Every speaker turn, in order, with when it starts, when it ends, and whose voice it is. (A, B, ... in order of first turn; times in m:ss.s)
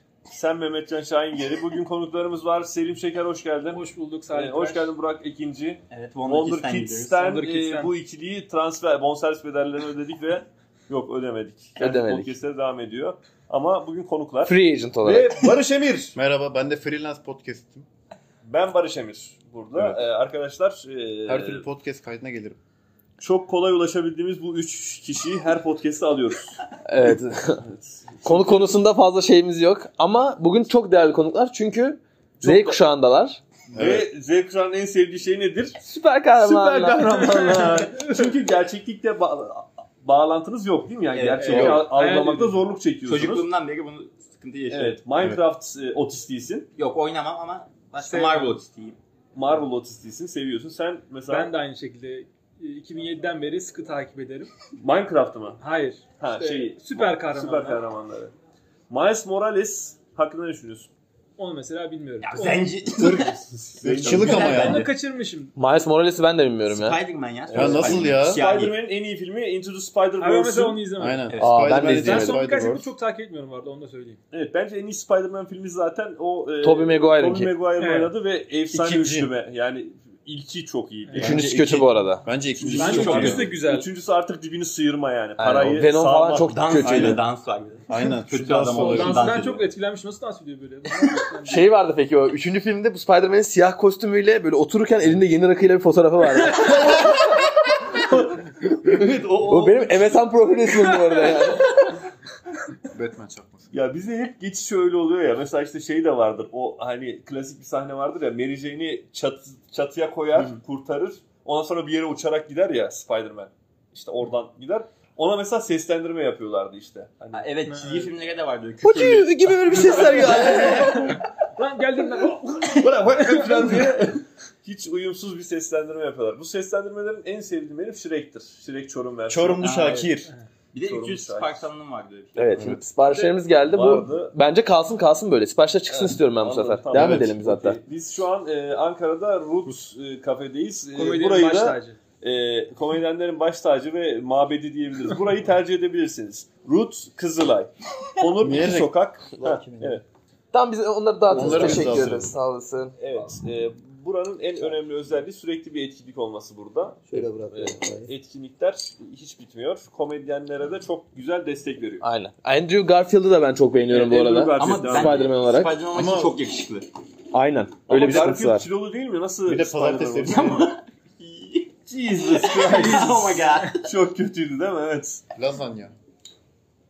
0:00.3-0:16.2 A
0:03.7-0:04.9 B
0:05.9-0:07.2 C
0:07.2-0:07.9 B
0:11.8-0:12.3 D
0:14.4-0:15.5 D
0:16.1-0:17.9 E
0:18.4-0:21.6 A
0:19.8-0:20.0 E
0:21.3-0:22.6 E
0:23.2-0:28.7 A
0:26.8-0:27.6 D
0:28.2-0:33.4 D
0:32.4-0:32.8 A
0:33.7-0:34.1 E
0:33.7-0:35.8 A
0:35.8-0:37.8 D
0:36.4-0:43.4 A
0:37.1-0:38.3 B
0:41.1-0:41.9 C
0:41.4-0:42.6 B
0:41.5-0:41.9 D
0:43.0-0:45.0 C
0:44.7-0:46.7 A
0:46.8-0:49.0 C
0:48.0-0:48.6 B
0:49.3-0:51.5 A
0:51.3-0:54.5 B
0:54.8-0:55.6 A
0:55.6-0:57.8 B
0:56.2-0:58.3 A
0:58.9-1:00.9 A
1:01.4-1:02.8 B
1:02.2-1:04.9 C
1:03.0-1:04.9 E
1:03.8-1:04.6 A
1:04.1-1:05.5 B
1:05.6-1:07.0 D
1:06.7-1:08.8 C
1:07.5-1:10.8 A
1:07.5-1:08.4 E
1:10.2-1:14.2 B
1:11.0-1:12.9 E
1:11.3-1:11.6 C
1:11.4-1:12.4 D
1:14.3-1:21.8 A
1:16.6-1:17.5 D
1:17.8-1:18.1 B
1:18.7-1:19.3 E
1:21.1-1:21.4 B
1:21.2-1:22.2 D
1:22.2-1:23.5 E
1:22.6-1:27.0 A
1:22.8-1:23.9 B
1:22.9-1:23.4 C
1:25.4-1:27.2 D
1:26.4-1:29.7 C
1:26.8-1:27.2 E
1:27.9-1:29.2 E
1:28.8-1:31.7 B
1:31.5-1:37.1 D
1:36.6-1:36.9 B
1:38.1-1:40.3 A
1:39.4-1:41.8 D
1:41.0-1:41.4 B
1:42.9-1:43.7 E
1:43.7-1:57.5 A
1:50.3-1:50.6 C
1:57.3-2:01.2 C
1:57.7-1:58.1 B
1:58.8-2:01.1 D
1:59.8-2:00.8 A
1:59.9-2:04.0 B
2:02.7-2:09.9 A
2:09.3-2:10.3 E
2:09.3-2:12.8 C
2:10.8-2:11.7 A
2:12.4-2:17.8 D
2:13.7-2:14.4 A
2:15.9-2:30.0 A
2:20.9-2:22.0 B
2:28.4-2:29.9 E
2:30.5-2:33.0 D
2:31.3-2:32.3 E
2:31.4-2:32.2 A
2:33.0-2:42.0 A
2:37.2-2:37.7 D
2:42.0-2:45.7 D
2:43.9-2:45.2 A
2:44.6-2:46.9 C
2:45.9-2:46.4 E
2:47.3-2:48.7 D
2:47.9-2:50.7 A
2:49.4-2:50.7 E
2:50.2-2:53.8 C
2:52.0-2:53.2 A
2:52.5-2:53.7 B
2:53.8-2:55.2 A
2:55.3-2:55.9 E